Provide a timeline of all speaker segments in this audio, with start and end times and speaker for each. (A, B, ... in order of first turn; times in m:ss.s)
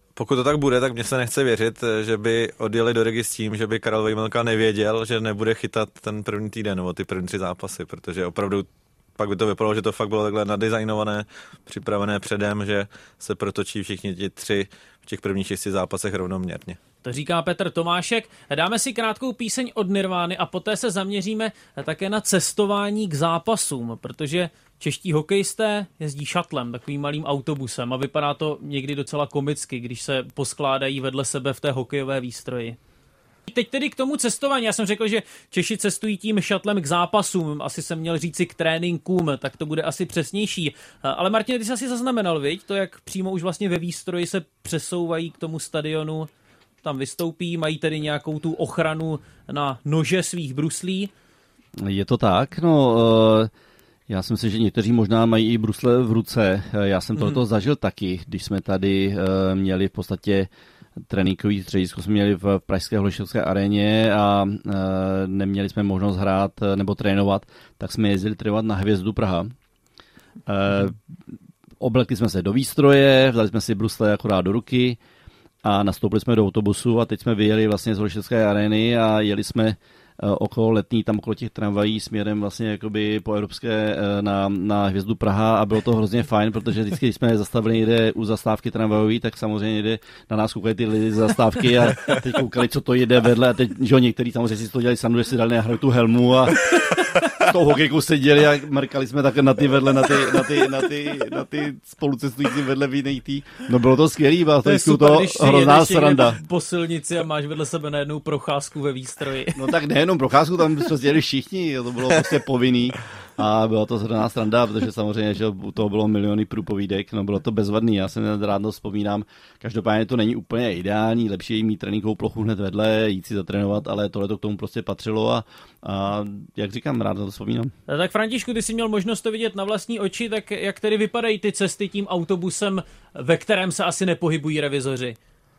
0:00.2-0:16.8 A
0:17.0-0:32.8 B
0:33.5-0:46.3 B
0:46.8-0:51.1 B
0:51.8-0:53.5 C
0:54.1-1:00.5 C
1:01.1-1:09.5 C
1:10.4-1:11.0 C
1:11.8-1:15.0 C
1:15.6-1:36.8 C
1:37.4-1:46.4 C
1:44.6-1:49.7 B
1:49.6-2:07.7 C
2:07.9-2:15.2 B